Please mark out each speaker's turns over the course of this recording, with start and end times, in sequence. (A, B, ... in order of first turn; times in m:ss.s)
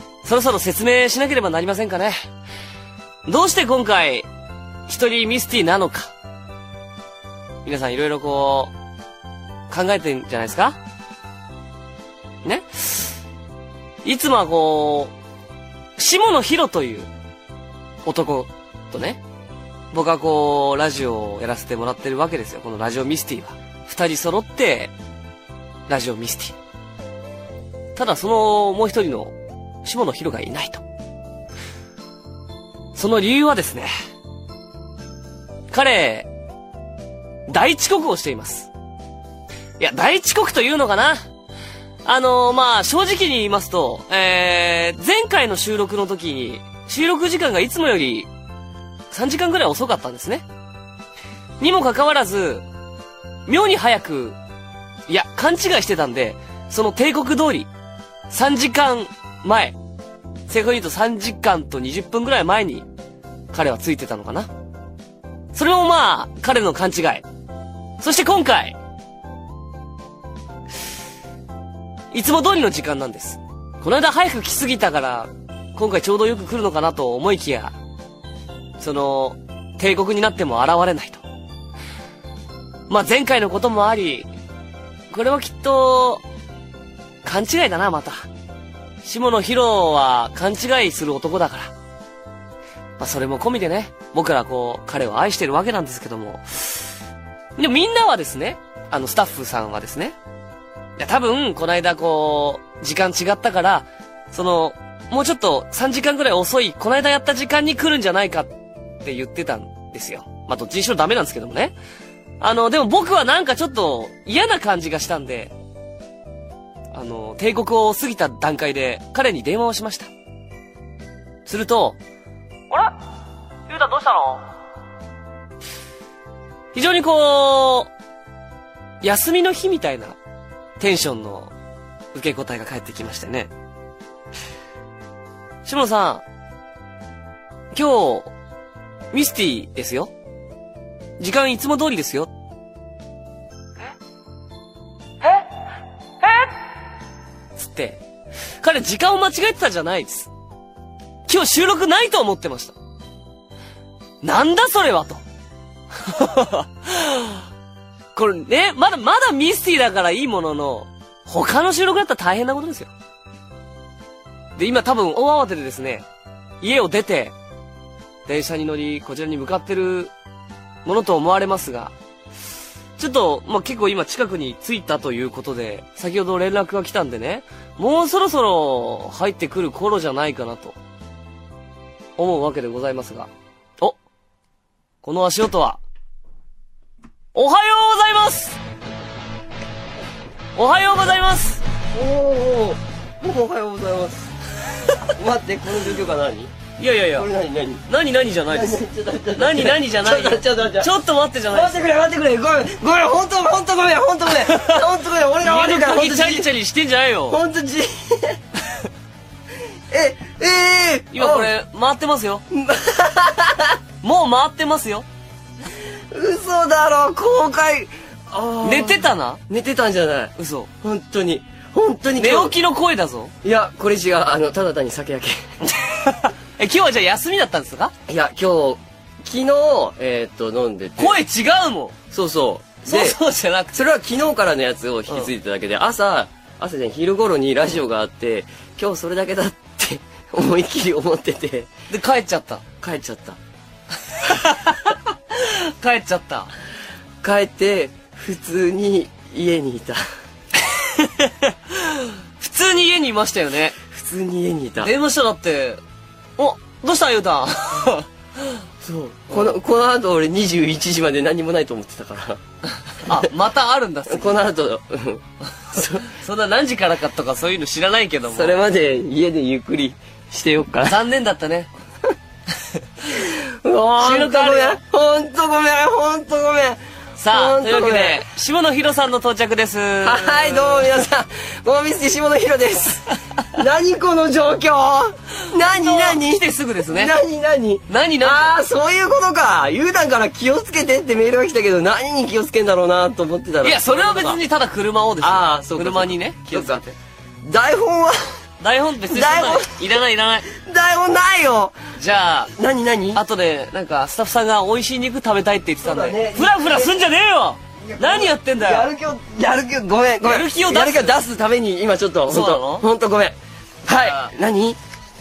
0:00.2-0:02.2 A
0:03.3-0:04.3 A
0:04.9-0:06.1 A
0:07.6-0:08.7 A
0:09.7-0:10.8 A
0:12.4-0:13.1 A
0:14.0-0:15.1 A
0:16.0-0:17.1 A
0:18.1-0:19.2 A
0:19.9-0:24.9 A
0:25.9-0:26.6 A
0:28.0-0:30.8 A
0:33.0-0:33.9 A
0:35.7-0:36.3 A
0:37.5-0:38.7 A
0:39.8-0:41.2 A
0:42.0-0:48.3 A
0:49.1-0:50.4 A
0:51.6-0:52.6 A
0:53.5-0:54.4 A
0:55.1-0:57.7 A
0:58.3-0:59.8 A
1:00.5-1:02.9 A
1:03.5-1:04.5 A
1:05.5-1:07.2 A
1:08.0-1:08.8 A
1:12.1-1:17.7 A
1:18.8-1:21.2 A
1:22.9-1:24.3 A
1:25.1-1:26.2 A
1:27.2-1:28.2 A
1:29.0-1:31.7 A
1:33.0-1:36.9 A
1:37.6-1:40.2 A
1:41.0-1:48.5 A
1:49.0-1:51.8 A
1:52.4-1:55.5 A
1:56.9-2:00.1 A
2:01.5-2:02.0 A
2:02.7-2:03.0 A
2:03.7-2:04.4 A
2:06.7-2:07.9 A
2:09.0-2:10.2 A
2:10.8-2:11.5 A
2:12.1-2:13.5 A
2:15.6-2:16.2 A
2:17.7-2:18.3 A
2:19.1-2:20.1 A
2:21.2-2:22.3 A
2:26.2-2:26.5 A
2:27.6-2:28.0 A
2:28.6-2:30.3 A
2:31.3-2:32.8 A
2:34.2-2:35.2 A
2:36.0-2:37.4 A
2:38.2-2:42.9 A
2:44.6-2:46.0 A
2:46.6-2:47.3 A
2:48.3-2:50.1 A
2:50.8-2:51.9 A
2:53.0-3:00.8 A
3:02.2-3:04.0 A
3:05.0-3:05.8 A
3:07.3-3:08.6 A
3:10.6-3:11.6 A
3:11.9-3:14.3 B
3:15.0-3:16.5 B
3:16.8-3:17.3 A
3:17.2-3:17.8 B
3:17.9-3:18.8 A
3:18.5-3:20.9 B
3:19.4-3:21.7 A
3:21.5-3:26.5 B
3:24.5-3:24.8 A
3:25.4-3:27.4 A
3:27.3-3:28.4 B
3:29.9-3:31.5 B
3:31.1-3:32.4 A
3:32.5-3:33.8 B
3:34.0-3:35.1 A
3:36.1-3:42.6 B
3:38.6-3:39.4 A
3:40.4-3:40.7 A
3:42.2-3:43.3 A
3:43.4-3:45.4 B
3:45.8-3:47.9 A
3:48.1-3:51.2 B
3:51.0-3:52.0 A
3:52.1-3:53.2 B
3:52.8-3:53.8 A
3:53.7-4:01.7 B
4:01.9-4:02.6 A
4:02.8-4:03.4 B
4:04.1-4:06.5 A
4:07.2-4:10.0 B
4:10.6-4:13.8 A
4:13.9-4:14.9 B
4:14.8-4:15.8 A
4:16.4-4:18.1 A
4:18.8-4:22.4 B
4:19.3-4:19.6 A
4:23.0-4:24.4 A
4:24.1-4:26.1 B
4:26.0-4:28.6 A
4:28.3-4:31.0 B
4:30.9-4:31.7 A
4:33.1-4:38.2 B
4:34.0-4:34.8 A
4:37.2-4:40.9 A
4:40.0-4:54.4 B
4:45.5-4:47.2 A
4:47.9-4:48.6 A
4:53.6-4:57.0 A
4:55.2-4:56.8 B
4:57.4-4:58.2 B
4:58.6-5:00.5 A
4:59.1-4:59.8 B
5:00.5-5:01.8 B
5:02.0-5:02.5 A
5:02.6-5:03.2 B
5:03.2-5:08.9 A
5:05.8-5:07.0 B
5:07.8-5:13.4 B
5:10.2-5:11.2 A
5:12.3-5:12.9 A
5:13.9-5:14.8 B
5:13.9-5:14.3 A